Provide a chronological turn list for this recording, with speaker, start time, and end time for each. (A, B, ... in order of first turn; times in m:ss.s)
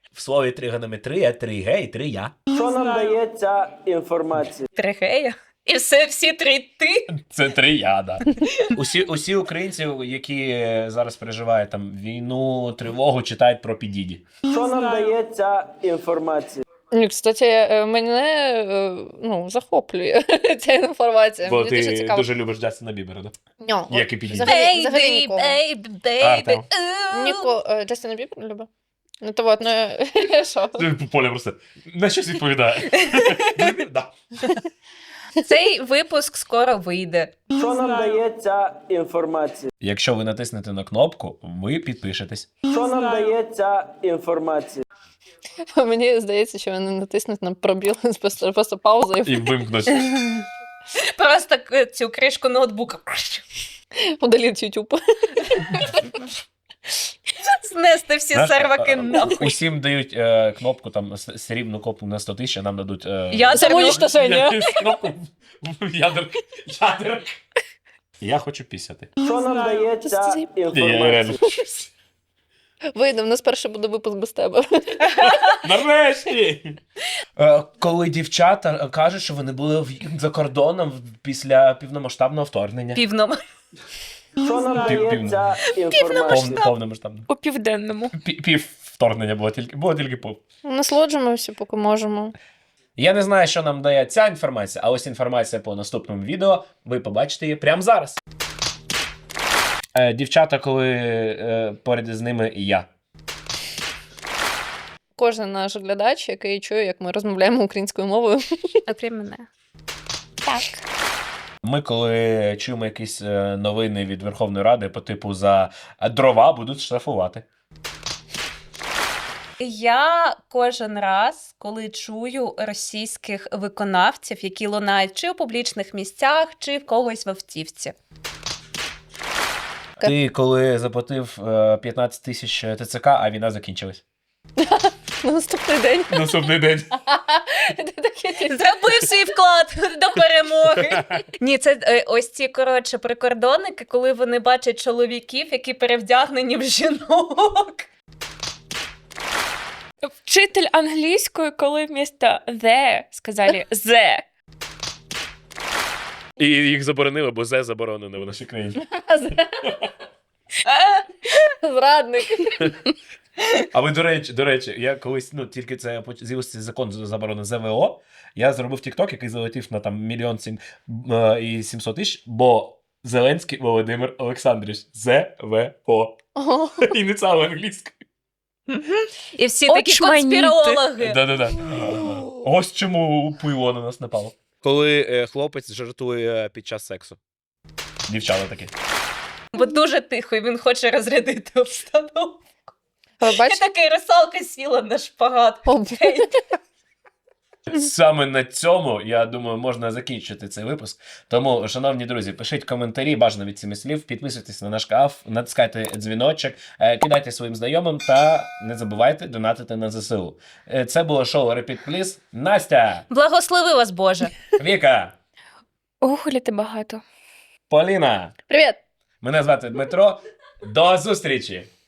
0:00.1-0:02.4 A
0:02.5-0:04.6 B
0:04.8-0:07.1 C
0:07.2-0:08.2 A
0:08.3-0:08.6 C
0:08.7-0:14.2 A
0:14.5-0:16.6 B
0:14.6-0:15.2 D
0:16.9-0:22.3 D
0:21.4-0:24.6 A
0:23.6-0:25.6 D
0:24.4-0:27.5 C
0:26.2-0:26.7 A
0:27.1-0:28.7 D
0:29.2-0:30.9 D
0:30.8-0:34.1 A
0:35.5-0:37.4 C
0:37.6-0:39.7 B
0:37.7-0:38.1 D
0:39.8-0:42.7 A
0:42.7-0:44.8 B
0:43.1-0:43.4 D
0:45.8-0:50.0 D
0:49.2-0:50.3 A
0:51.1-0:53.4 C
0:54.1-0:56.2 D
0:57.6-0:59.6 C
0:58.3-1:07.3 A
1:03.3-1:04.0 C
1:03.5-1:05.0 D
1:08.2-1:09.1 A
1:09.2-1:10.7 D
1:09.2-1:11.4 B
1:10.7-1:11.9 A
1:13.0-1:15.5 D
1:15.5-1:16.8 A
1:17.4-1:23.0 A
1:22.9-1:23.4 C
1:24.4-1:26.6 B
1:24.6-1:24.9 E
1:24.8-1:25.6 A
1:25.8-1:26.7 C
1:26.2-1:27.3 A
1:27.3-1:28.2 E
1:28.1-1:30.4 A
1:30.6-1:32.3 D
1:33.0-1:38.2 A
1:40.0-1:42.9 A
1:45.2-1:48.7 D
1:48.9-1:49.5 C
1:50.4-1:50.8 E
1:51.6-1:57.4 A
1:59.6-2:08.0 C
2:10.0-2:14.0 A
2:14.6-2:18.8 D
2:16.1-2:16.9 A
2:18.5-2:27.8 C
2:30.0-2:34.2 E
2:36.4-2:38.8 A
2:38.9-2:39.9 D
2:41.5-2:42.8 D
2:43.7-2:56.2 A
2:56.4-2:57.0 D
2:56.8-2:58.0 A
2:58.7-3:01.2 C
2:59.7-3:00.8 E
3:01.0-3:07.2 A
3:08.1-3:08.7 A
3:09.5-3:12.4 C
3:13.2-3:13.6 D
3:13.3-3:16.3 C
3:15.7-3:16.3 D
3:17.7-3:33.1 A
3:33.1-3:34.5 C
3:34.6-3:35.2 A
3:36.0-3:37.0 E
3:37.7-3:38.4 A
3:38.5-3:38.8 D
3:39.2-3:41.7 A